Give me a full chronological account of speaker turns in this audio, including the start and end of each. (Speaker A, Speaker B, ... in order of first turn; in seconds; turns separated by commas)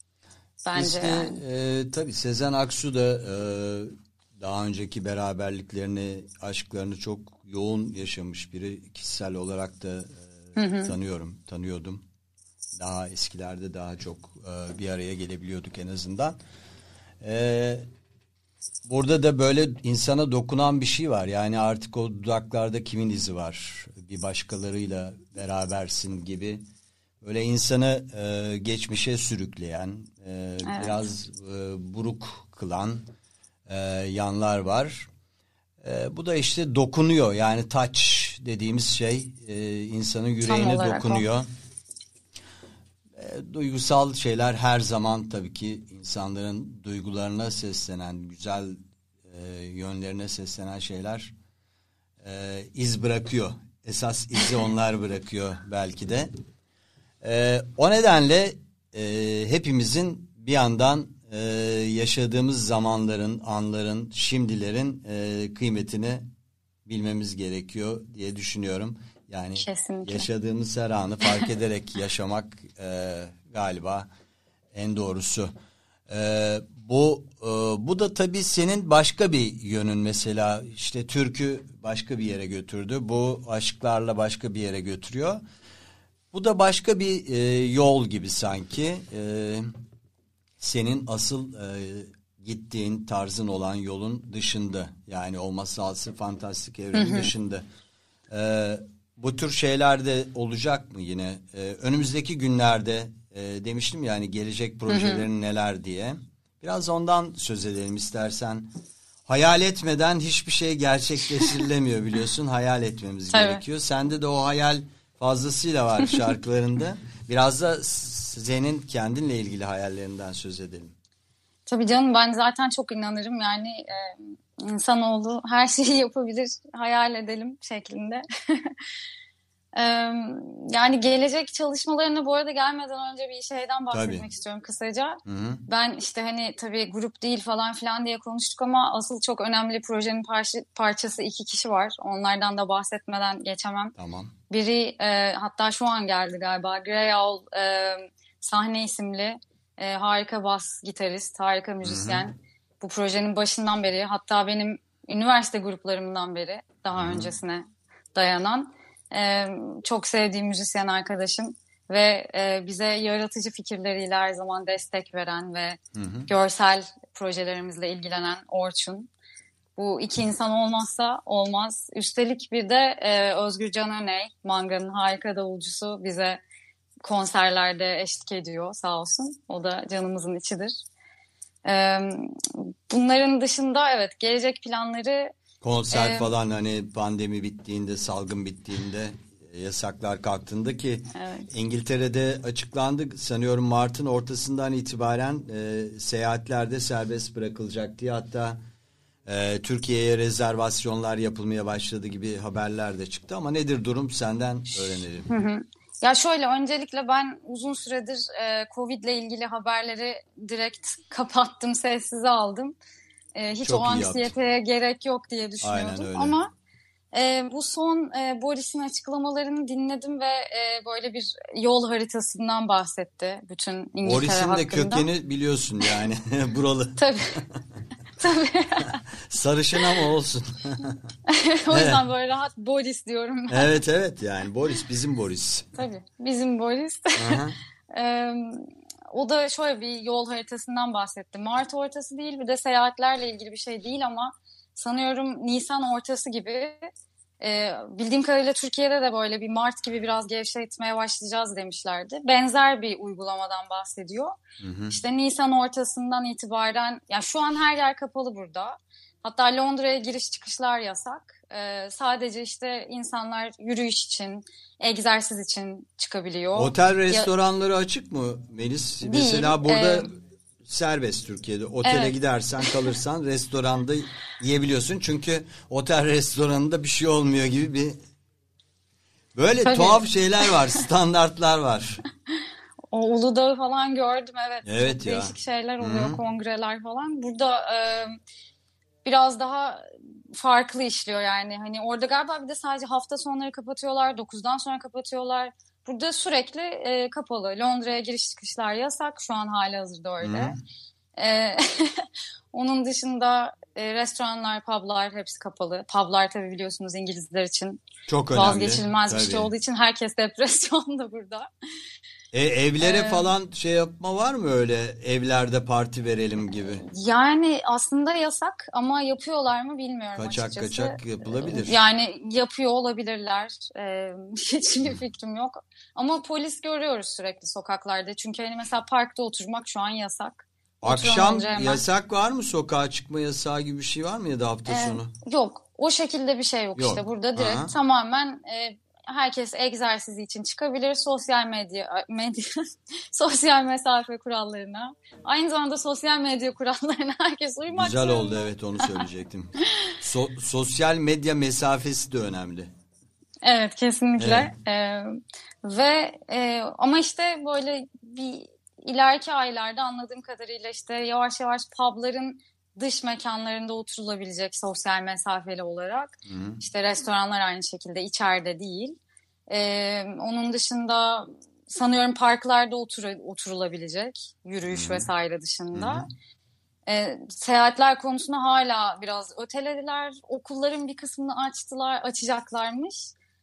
Speaker A: 0.6-1.4, Speaker B: 0.7-10.3, Speaker A: 10.6-10.9, Speaker B: 10.8-12.0, Speaker B: 12.8-16.4, Speaker B: 17.2-17.9, Speaker B: 18.9-26.6, Speaker B: 27.2-33.1, Speaker A: 30.6-31.0, Speaker B: 33.7-35.1, Speaker B: 35.8-41.5, Speaker A: 40.4-41.2, Speaker B: 43.1-51.3, Speaker B: 52.2-56.3, Speaker B: 57.2-66.2, Speaker B: 66.8-74.1, Speaker A: 69.6-70.2, Speaker B: 74.7-75.5, Speaker B: 76.1-85.4, Speaker B: 86.3-89.7, Speaker B: 90.6-97.6, Speaker A: 96.9-97.3, Speaker B: 98.3-108.7, Speaker A: 104.9-105.2, Speaker B: 109.3-120.9, Speaker A: 113.3-113.6, Speaker A: 121.7-128.8, Speaker A: 129.8-143.9, Speaker B: 133.9-134.2, Speaker B: 135.2-135.6, Speaker B: 144.0-144.3, Speaker A: 144.5-169.1, Speaker B: 151.8-152.2, Speaker B: 156.9-157.3, Speaker B: 165.9-166.3, Speaker A: 169.8-176.4, Speaker A: 177.0-180.8, Speaker A: 181.6-185.3, Speaker B: 185.6-198.6, Speaker A: 185.9-186.3, Speaker A: 191.1-191.5, Speaker B: 199.2-205.3, Speaker A: 205.3-212.7, Speaker A: 213.3-216.5, Speaker B: 213.6-214.3, Speaker B: 215.6-216.3, Speaker A: 217.1-225.1, Speaker B: 224.0-227.6, Speaker A: 227.0-227.3, Speaker A: 228.2-229.0, Speaker B: 228.8-231.1, Speaker A: 231.3-233.7, Speaker B: 231.7-232.0, Speaker B: 233.5-235.8, Speaker A: 235.8-246.9, Speaker B: 237.2-237.6, Speaker A: 247.4-254.4, Speaker B: 254.6-254.9, Speaker A: 254.9-267.3, Speaker B: 266.5-278.0, Speaker A: 269.0-270.1, Speaker A: 271.8-272.1, Speaker B: 279.3-282.0, Speaker A: 279.6-280.5, Speaker A: 282.9-288.2, Speaker B: 284.6-286.2, Speaker A: 289.0-300.5, Speaker B: 300.2-300.6, Speaker A: 301.2-307.8, Speaker B: 308.1-309.5, Speaker A: 308.3-311.5, Speaker B: 312.3-316.9, Speaker A: 312.8-313.3, Speaker A: 316.9-331.8, Speaker B: 320.1-321.8, Speaker B: 330.8-335.1, Speaker A: 334.7-348.8, Speaker B: 336.8-337.7, Speaker B: 347.7-352.7, Speaker A: 353.4-369.0, Speaker B: 354.2-354.5, Speaker B: 366.2-366.6, Speaker A: 369.5-376.1, Speaker B: 374.7-375.1, Speaker B: 375.7-376.1, Speaker A: 376.9-383.1